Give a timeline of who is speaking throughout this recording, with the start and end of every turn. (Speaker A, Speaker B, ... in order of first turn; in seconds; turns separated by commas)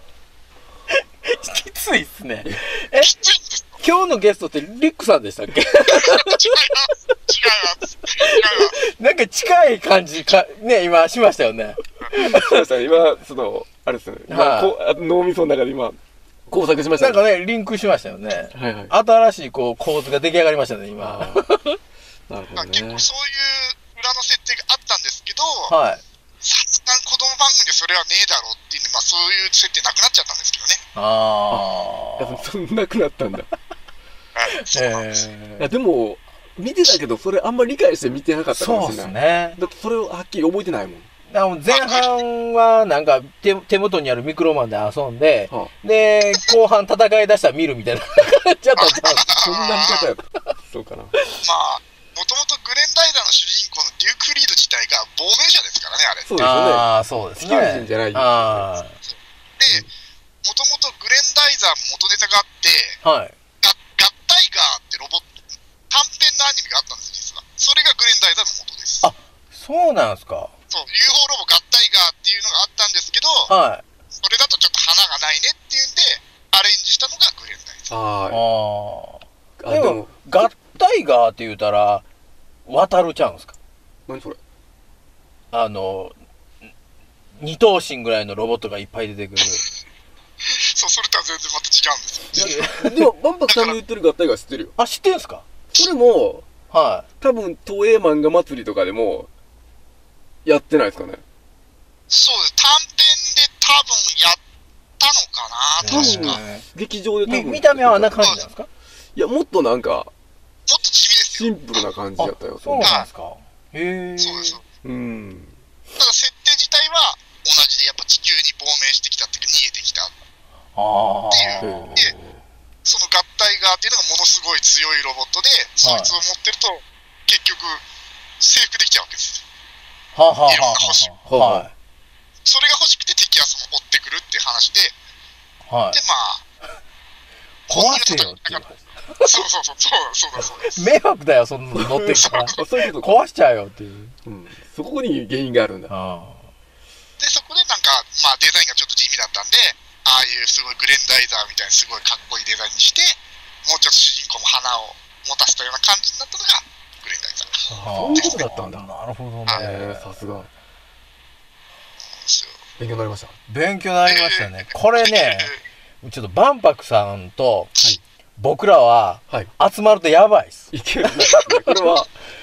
Speaker A: 0.9-3.1, Speaker B: 3.0-3.7, Speaker A: 3.8-6.5, Speaker B: 5.9-8.8, Speaker A: 8.2-12.6, Speaker C: 12.2-17.2, Speaker A: 14.3-14.7, Speaker A: 16.9-21.8, Speaker C: 18.5-18.9, Speaker C: 21.0-21.5, Speaker C: 22.3-23.1, Speaker B: 22.6-25.7, Speaker A: 25.7-26.0, Speaker B: 26.4-30.8, Speaker A: 30.9-32.5, Speaker C: 31.5-33.5, Speaker B: 34.4-35.3, Speaker A: 34.5-35.7, Speaker C: 35.6-41.1, Speaker A: 38.5-39.6, Speaker A: 41.3-49.3, Speaker B: 41.7-42.1, Speaker B: 48.8-50.1, Speaker C: 49.2-51.1, Speaker B: 51.4-56.3, Speaker C: 56.2-58.7, Speaker A: 56.4-59.0, Speaker B: 59.0-59.9, Speaker B: 60.4-63.0, Speaker A: 63.0-63.3, Speaker B: 63.6-65.3, Speaker B: 65.9-69.1, Speaker A: 69.0-70.5, Speaker B: 70.7-73.5, Speaker A: 73.5-73.8, Speaker B: 74.2-77.9, Speaker C: 77.9-78.4, Speaker A: 78.3-82.0, Speaker C: 79.6-80.5, Speaker A: 82.7-83.5, Speaker C: 84.1-84.4, Speaker A: 85.5-86.1, Speaker A: 87.4-89.6, Speaker B: 90.5-92.6, Speaker A: 92.3-93.1, Speaker C: 92.3-94.8, Speaker B: 93.5-93.8, Speaker A: 94.8-95.5, Speaker C: 95.7-96.5, Speaker A: 96.7-97.1, Speaker C: 97.2-99.3, Speaker C: 100.5-101.2, Speaker B: 102.1-104.4, Speaker B: 105.0-106.4, Speaker A: 105.8-106.7, Speaker C: 105.8-108.2, Speaker A: 107.2-108.7, Speaker C: 109.2-110.1, Speaker B: 110.7-111.5, Speaker C: 111.2-112.9, Speaker A: 112.2-114.6, Speaker B: 112.8-113.1, Speaker B: 114.2-114.6, Speaker C: 114.8-115.6, Speaker B: 116.0-120.1, Speaker A: 120.8-122.1, Speaker B: 121.3-122.1, Speaker C: 121.6-122.4, Speaker B: 122.8-127.8, Speaker A: 125.8-126.2, Speaker B: 128.4-129.4, Speaker A: 130.1-131.7, Speaker B: 130.5-131.1, Speaker C: 131.3-131.7, Speaker B: 132.4-134.9, Speaker A: 135.7-136.0, Speaker B: 135.9-136.4, Speaker A: 137.7-139.3, Speaker B: 137.7-138.7, Speaker B: 139.2-140.9, Speaker A: 140.6-144.2, Speaker C: 141.8-143.2, Speaker B: 142.1-142.7, Speaker C: 144.3-145.9, Speaker A: 145.9-146.5, Speaker B: 147.2-158.5, Speaker C: 157.7-158.9, Speaker A: 157.8-160.3, Speaker C: 159.5-160.5, Speaker B: 162.2-162.6, Speaker C: 162.8-163.3, Speaker A: 163.5-167.7, Speaker B: 164.1-165.6, Speaker A: 168.4-171.7, Speaker C: 170.7-172.1